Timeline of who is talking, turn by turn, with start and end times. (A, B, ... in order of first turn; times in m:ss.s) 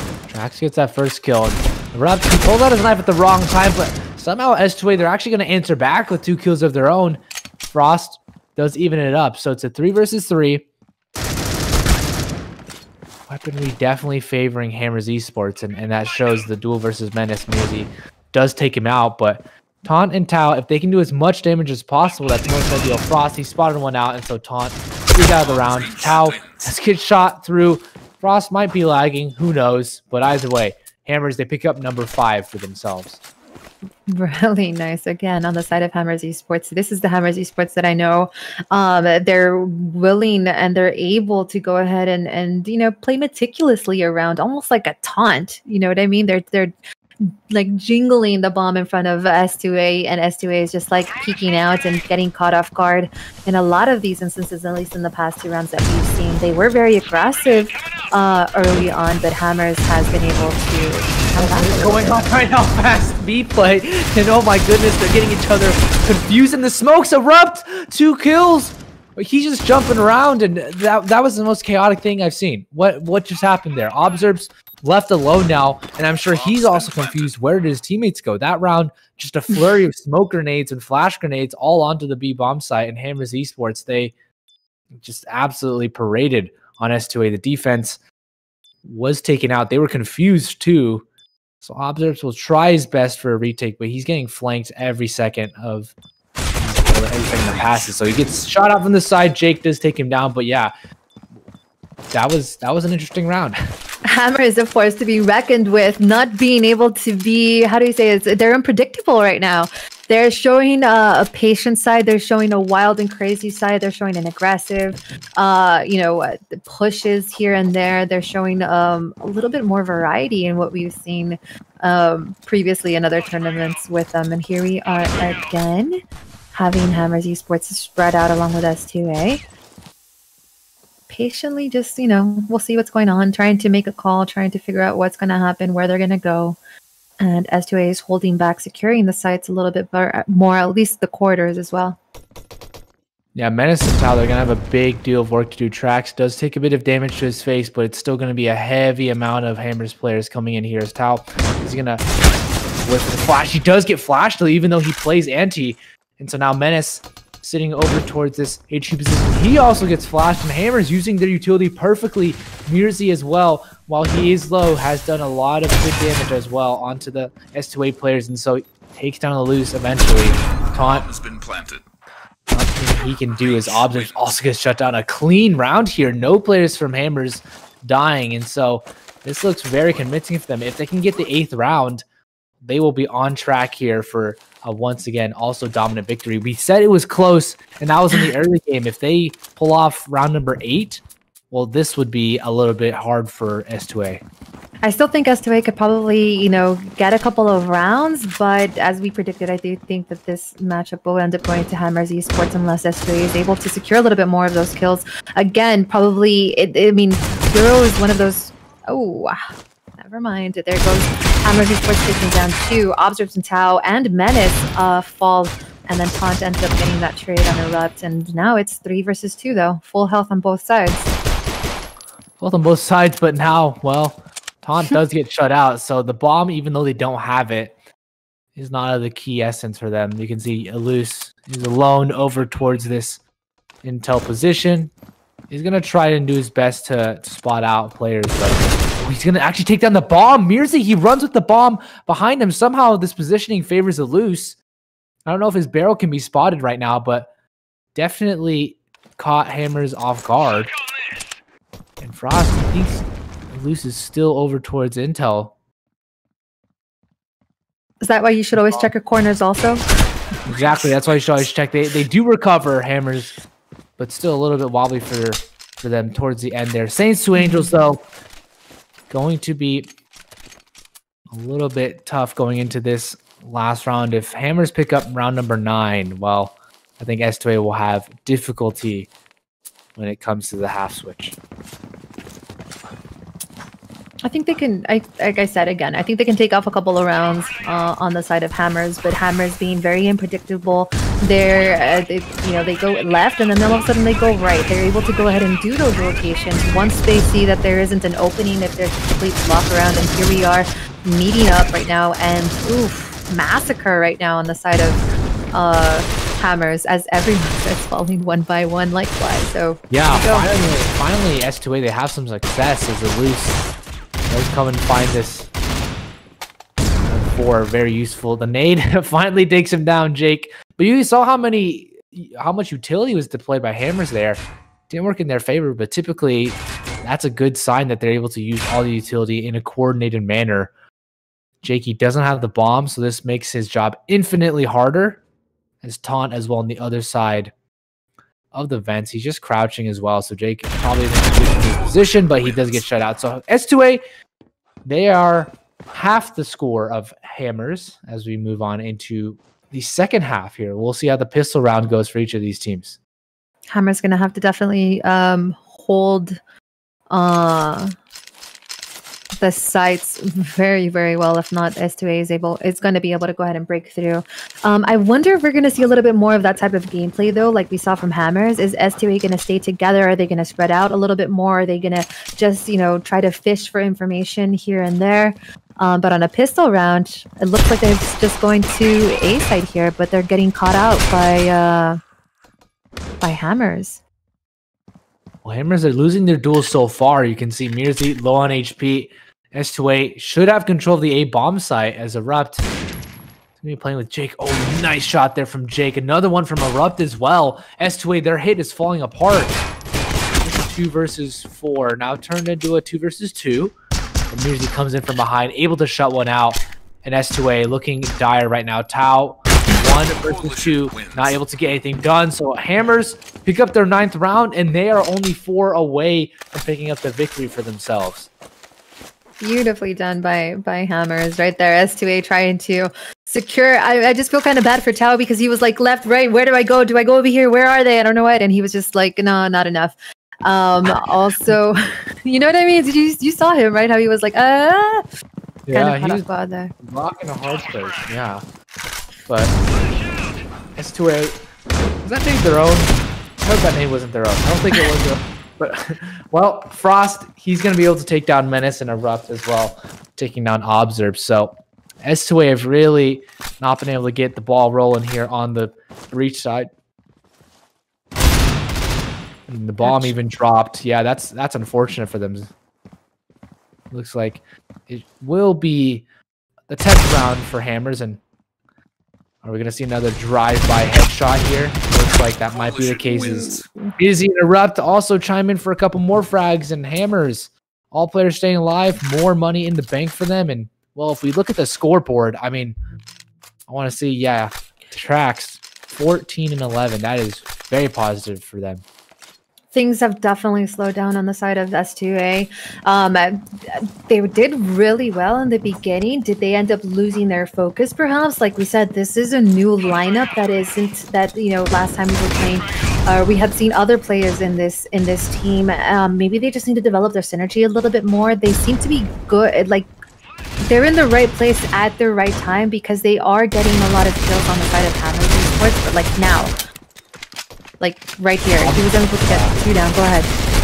0:00.3-0:07.2 A
0:07.7-0:10.6 A
0:13.3-0:33.2 A
0:22.2-0:23.0 B
0:25.4-0:26.7 B
0:34.1-1:02.2 C
1:01.4-1:24.1 A
1:16.3-1:17.4 B
1:25.0-1:28.0 A
1:28.8-1:31.1 A
1:31.6-1:35.9 A
1:36.6-1:40.7 A
1:37.3-1:38.3 B
1:42.1-1:43.6 A
1:44.1-2:06.0 C
2:06.5-2:09.4 C
2:11.1-2:16.6 C
2:17.2-2:22.0 C
2:23.4-2:32.1 A
2:32.8-2:51.1 A
2:50.7-2:51.8 B
2:52.5-3:02.0 A
2:53.4-2:54.3 B
3:02.6-3:14.2 A
3:14.8-3:29.4 C
3:30.0-3:41.1 C
3:42.4-3:47.8 A
3:48.6-3:53.2 A
3:53.8-3:54.9 A
3:55.5-4:04.6 A
4:05.3-4:07.3 A
4:08.0-4:10.7 A
4:12.0-4:15.6 A
4:18.0-4:19.8 C
4:18.6-4:18.9 A
4:20.5-4:23.4 A
4:24.0-4:28.0 A
4:27.4-4:27.7 C
4:29.1-4:29.9 A
4:31.3-4:39.1 A
4:40.0-4:41.4 A
4:44.2-5:10.5 C
5:09.9-5:13.6 A
5:14.3-5:15.5 A
5:16.9-5:30.7 A
5:31.6-5:35.2 A
5:35.8-5:37.5 A
5:38.5-5:44.0 A
5:41.9-5:42.8 B
5:44.8-5:53.0 A
5:53.7-5:56.4 C
5:57.1-5:58.0 C
5:59.4-6:22.0 C
6:23.2-6:24.0 C
6:25.4-6:32.7 A
6:33.6-6:39.6 A
6:40.4-6:43.7 A
6:44.3-6:58.3 A
6:50.1-6:51.4 B
6:59.4-7:15.1 C
7:15.7-7:16.2 A
7:15.7-7:16.7 C
7:16.8-7:18.4 A
7:19.3-7:19.6 A
7:20.8-7:21.4 A
7:22.0-7:36.7 A
7:39.5-7:42.5 A
7:39.8-7:40.1 C
7:43.9-7:46.0 A
7:46.7-7:48.2 A
7:49.4-8:02.8 A
7:52.5-7:53.7 B
8:03.7-8:08.8 A
8:09.7-8:29.9 C
8:30.6-8:36.5 C
8:37.8-8:40.3 C
8:38.6-8:39.6 A